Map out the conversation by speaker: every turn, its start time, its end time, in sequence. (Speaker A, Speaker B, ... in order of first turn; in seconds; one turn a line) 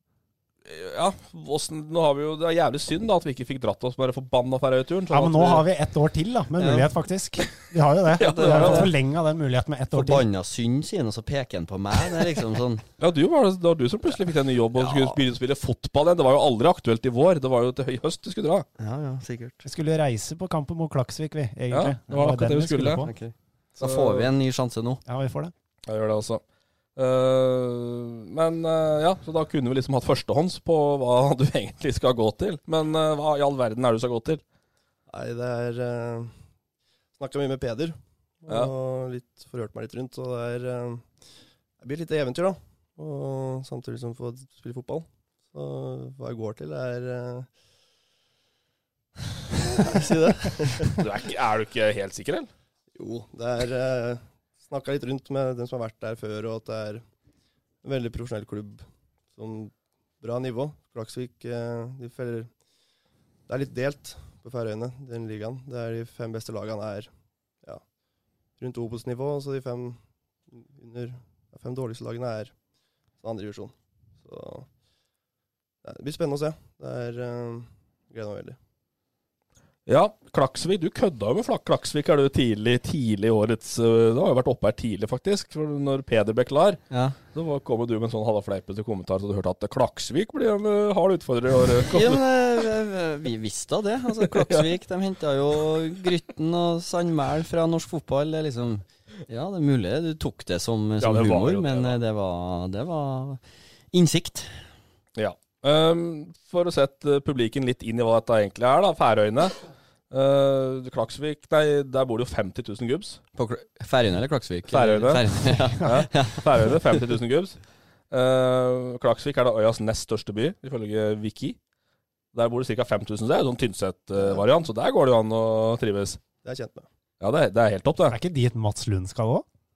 Speaker A: 0.6-5.6
Speaker B: 5.1-10.2
Speaker C: 6.6-6.9
Speaker A: 8.2-8.9
Speaker C: 8.2-8.9
Speaker C: 9.9-12.8
Speaker A: 13.0-18.6
Speaker C: 14.7-15.2
Speaker C: 18.8-19.6
Speaker B: 19.6-23.1
Speaker A: 21.7-23.0
Speaker C: 23.0-25.0
Speaker A: 23.8-24.3
Speaker B: 25.1-25.5
Speaker A: 25.9-26.4
Speaker A: 26.9-34.4
Speaker D: 35.1-36.3
Speaker D: 37.2-41.1
Speaker D: 41.8-47.5
Speaker D: 49.4-51.0
Speaker A: 51.0-52.5
Speaker D: 53.0-57.0
Speaker D: 57.8-62.5
Speaker D: 63.5-67.1
Speaker D: 68.6-72.5
Speaker D: 73.2-74.7
Speaker D: 75.8-78.6
Speaker A: 79.9-86.8
Speaker C: 86.9-87.2
Speaker A: 87.3-92.6
Speaker C: 91.9-103.4
Speaker A: 94.2-94.7
Speaker A: 101.0-102.0
Speaker C: 103.9-104.5
Speaker A: 105.2-109.5
Speaker A: 110.1-113.2
Speaker C: 113.3-116.9
Speaker A: 114.7-117.6
Speaker A: 118.1-121.6
Speaker A: 122.3-126.2
Speaker D: 126.4-126.8
Speaker A: 127.2-128.2
Speaker B: 128.1-129.4